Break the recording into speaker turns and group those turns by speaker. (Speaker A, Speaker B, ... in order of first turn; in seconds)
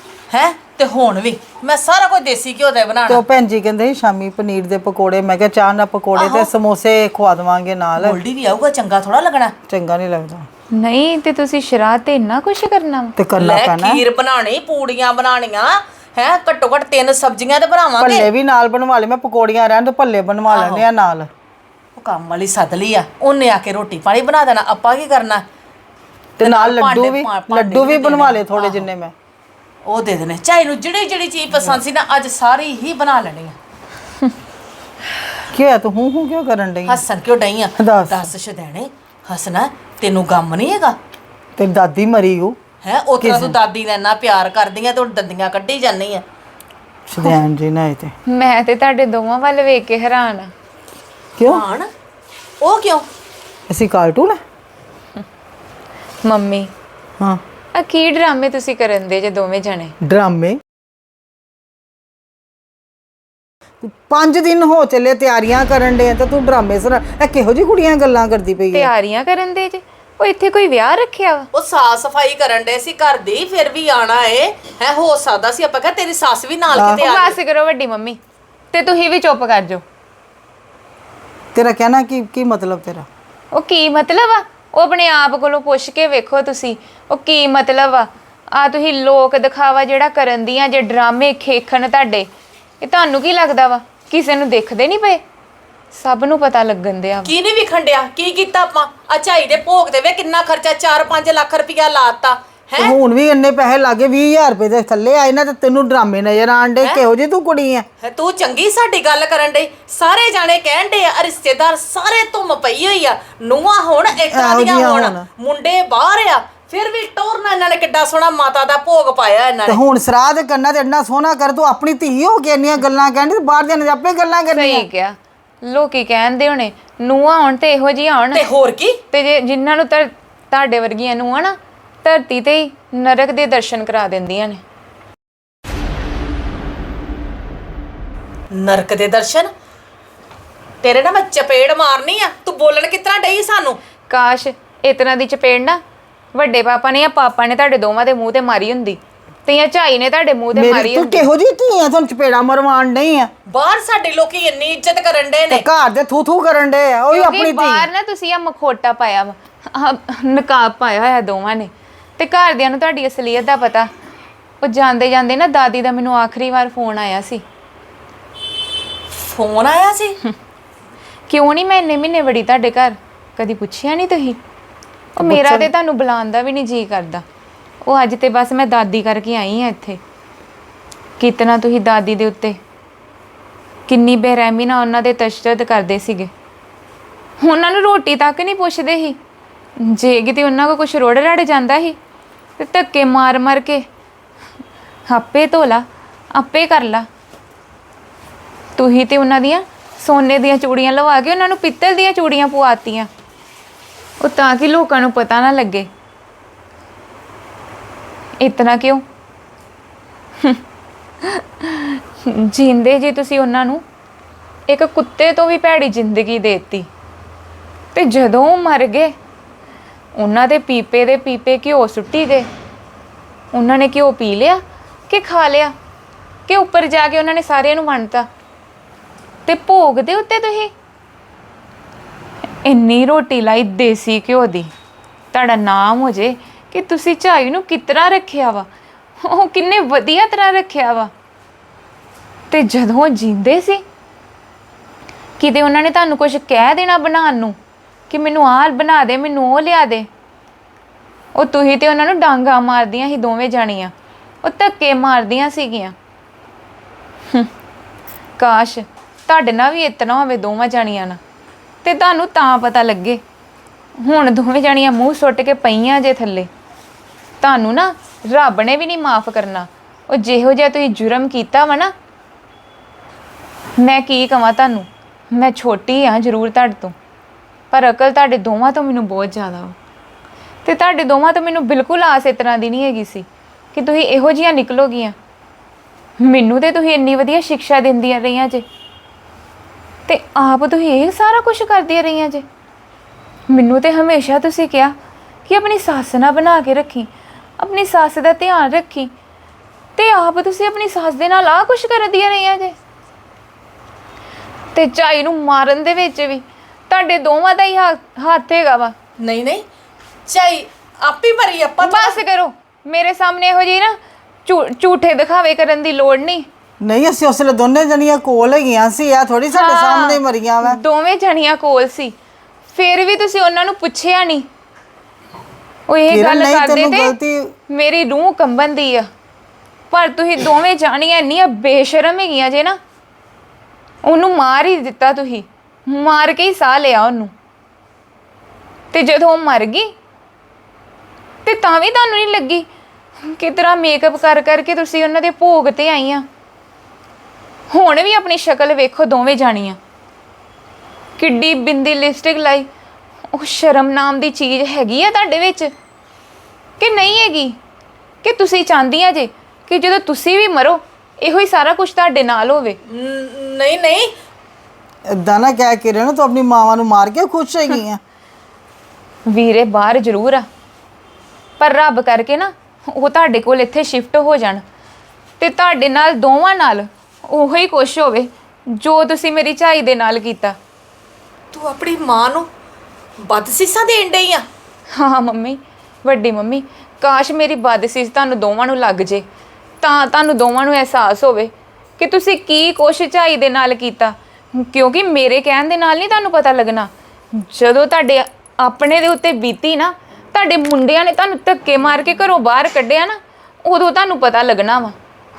Speaker A: 0.3-3.2, 6.2-6.5, 8.0-9.5, 13.4-18.3, 20.5-20.9, 22.0-25.4, 26.4-28.9, 29.9-33.6, 36.9-41.0, 42.8-46.2, 51.4-51.9, 52.6-53.1, 71.5-77.4, 97.2-103.0, 108.0-119.8, 128.3-129.0, 138.5-139.5, 140.8-143.8, 153.5-155.7, 169.1-170.2, 309.2-309.6, 310.3-312.2, 362.9-364.1, 381.5-382.5, 383.2-384.5
Speaker B: 3.1-8.2, 9.7-10.5, 13.2-14.0, 18.0-21.3, 26.4-29.1, 35.5-37.0, 37.8-38.3, 41.6-42.6, 43.2-43.6, 47.1-48.1, 51.4-51.6, 53.7-54.4, 60.0-60.6, 63.8-68.9, 76.8-77.0, 81.5-83.1, 102.8-107.9, 114.3-115.2, 119.7-124.9, 150.6-153.3, 155.5-157.9, 175.2-175.7, 316.8-320.8, 326.1-327.5, 365.1-368.0
Speaker C: 10.7-13.2, 48.3-50.5, 56.2-56.7, 57.8-59.9, 68.7-71.5, 76.9-78.2, 78.7-79.8, 83.5-92.3, 92.8-95.2, 95.9-97.3, 124.5-128.4, 129.1-134.6, 144.1-145.8, 146.3-151.3, 157.1-163.9, 164.6-167.4, 171.3-174.4, 175.2-177.2, 177.8-180.0, 181.2-182.6, 183.9-186.3, 187.4-189.2, 189.8-192.0, 192.6-193.8, 195.1-197.1, 198.8-203.1, 204.2-205.9, 208.4-209.0, 211.2-213.8, 214.7-216.9, 217.9-219.1, 220.2-222.5, 223.5-225.7, 226.5-228.3, 229.5-230.7, 232.7-234.7, 235.3-238.7, 239.2-241.1, 242.5-243.8, 245.4-247.6, 248.1-250.1, 251.3-253.9, 254.4-255.9, 258.4-261.2, 261.8-263.2, 264.0-266.5, 267.4-271.9, 273.8-276.9, 277.7-279.8, 280.6-285.1, 286.2-288.6, 290.1-292.4, 293.5-294.9, 295.5-299.1, 300.0-302.8, 304.7-308.9, 311.8-316.5, 319.5-322.1, 322.7-324.5, 325.9-327.2, 327.7-329.1, 329.9-332.8, 334.1-337.3, 338.9-339.9, 341.4-342.7, 343.2-346.3, 347.7-349.8, 351.2-352.7, 353.3-355.7, 356.8-357.6, 358.2-362.8, 369.3-370.5, 371.6-374.6, 375.4-380.6, 384.9-389.2, 389.8-404.9